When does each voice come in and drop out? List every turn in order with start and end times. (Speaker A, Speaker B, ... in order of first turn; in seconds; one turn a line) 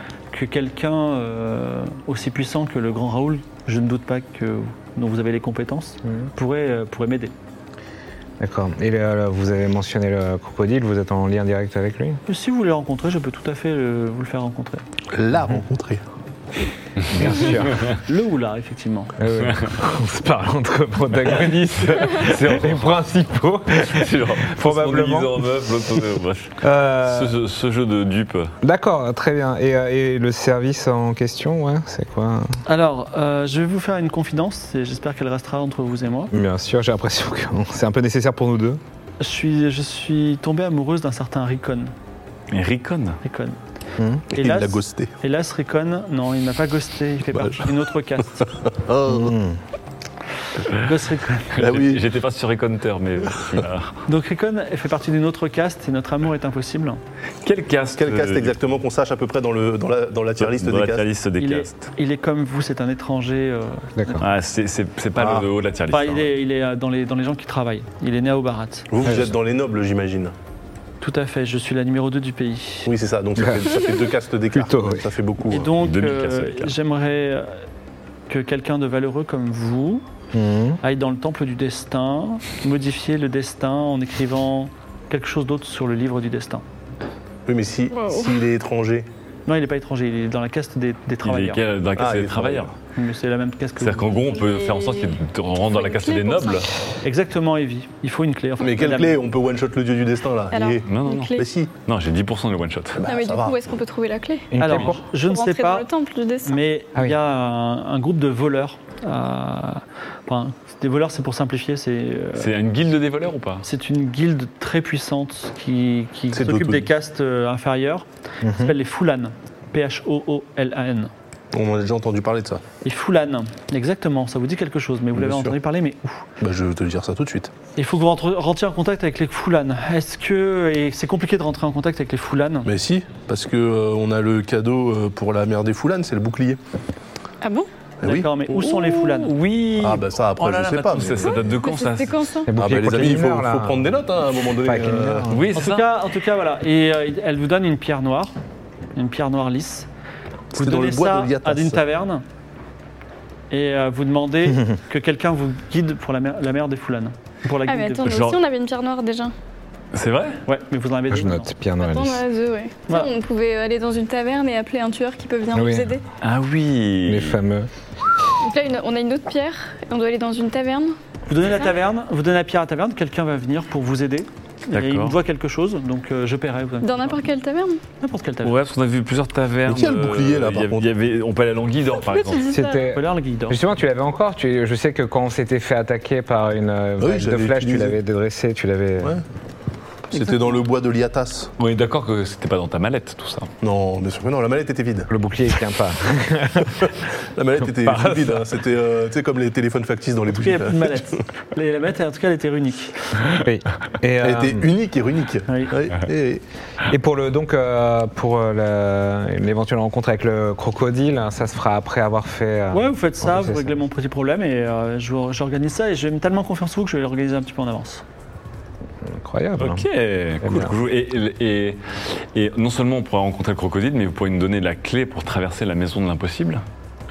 Speaker A: 0.3-7.3
Speaker B: 8.4-12.2
Speaker A: 12.3-14.8
Speaker C: 15.1-16.0
Speaker D: 17.0-18.0
Speaker B: 17.1-17.8
Speaker A: 17.9-19.2
Speaker B: 19.2-25.5
Speaker D: 19.4-19.7
Speaker D: 21.4-22.9
Speaker D: 23.8-28.5
Speaker B: 26.6-27.4
Speaker B: 28.6-32.6
Speaker A: 32.6-36.3
Speaker B: 36.3-38.8
Speaker A: 39.2-41.9
Speaker D: 42.5-43.2
Speaker A: 43.2-43.6
Speaker B: 44.0-44.3
Speaker C: 44.3-45.1
Speaker A: 44.3-48.5
Speaker C: 47.4-47.7
Speaker C: 48.4-49.4
Speaker B: 49.1-49.6
Speaker A: 50.7-51.6
Speaker D: 51.5-54.0
Speaker C: 51.6-52.0
Speaker A: 54.1-57.0
Speaker D: 57.4-58.6
Speaker C: 58.0-61.0
Speaker D: 60.4-61.9
Speaker A: 61.4-63.9
Speaker B: 64.0-64.3
Speaker D: 64.2-66.3
Speaker C: 65.2-65.5
Speaker A: 65.9-68.9
Speaker C: 68.9-70.3
Speaker B: 69.0-69.3
Speaker A: 71.0-72.9
Speaker C: 72.8-75.7
Speaker B: 73.4-73.9
Speaker B: 74.5-75.1
Speaker A: 75.5-77.6
Speaker D: 75.8-76.8
Speaker A: 78.3-80.0
Speaker B: 80.3-80.8
Speaker A: 80.8-86.6
Speaker C: 87.5-89.1
Speaker E: 87.9-88.4
Speaker A: 89.5-91.6
Speaker D: 91.2-92.8
Speaker C: 92.0-92.7
Speaker A: 93.0-94.2
Speaker D: 93.8-96.7
Speaker E: 94.3-96.7
Speaker A: 97.0-99.2
Speaker C: 98.6-101.7
Speaker E: 100.5-101.5
Speaker D: 100.9-103.0
Speaker C: 103.0-103.6
Speaker E: 103.0-106.6
Speaker B: 104.5-105.0
Speaker A: 104.6-105.9
Speaker A: 106.5-112.5
Speaker D: 112.4-113.7
Speaker A: 113.6-121.1
Speaker C: 116.3-116.9
Speaker B: 118.4-118.8
Speaker C: 121.5-122.6
Speaker A: 122.8-126.3
Speaker C: 125.2-125.6
Speaker C: 126.4-127.5
Speaker A: 127.8-132.7
Speaker C: 132.7-136.6
Speaker E: 137.4-137.7
Speaker C: 138.0-138.3
Speaker A: 138.0-139.3
Speaker D: 138.5-142.4
Speaker C: 139.8-141.4
Speaker E: 141.2-142.5
Speaker B: 142.5-143.9
Speaker C: 142.6-145.3
Speaker B: 144.6-145.5
Speaker D: 145.3-145.9
Speaker A: 145.5-148.3
Speaker A: 149.0-149.9
Speaker C: 150.5-151.8
Speaker A: 150.5-152.2
Speaker A: 153.5-158.1
Speaker B: 154.5-154.8
Speaker E: 157.7-159.3
Speaker D: 158.1-158.4
Speaker D: 159.9-160.4
Speaker A: 160.5-161.5
Speaker B: 161.1-162.2
Speaker E: 161.8-166.0
Speaker B: 165.5-165.9
Speaker D: 166.2-167.4
Speaker B: 167.1-167.7
Speaker E: 168.4-171.0
Speaker A: 171.3-177.2
Speaker D: 174.7-175.2
Speaker E: 176.8-177.8
Speaker A: 178.0-178.6
Speaker D: 178.4-182.5
Speaker C: 179.7-180.8
Speaker E: 182.0-182.9
Speaker B: 182.5-189.2
Speaker A: 182.8-183.6
Speaker C: 187.0-188.0
Speaker C: 190.1-191.5
Speaker D: 191.6-193.5
Speaker C: 193.6-195.1
Speaker B: 195.1-196.9
Speaker C: 196.8-201.1
Speaker D: 197.8-198.5
Speaker A: 200.3-203.1
Speaker B: 203.3-204.7
Speaker C: 204.2-206.4
Speaker A: 205.5-205.7
Speaker B: 206.9-213.8
Speaker A: 212.7-218.0
Speaker B: 219.0-219.8
Speaker D: 219.6-226.6
Speaker B: 220.4-220.8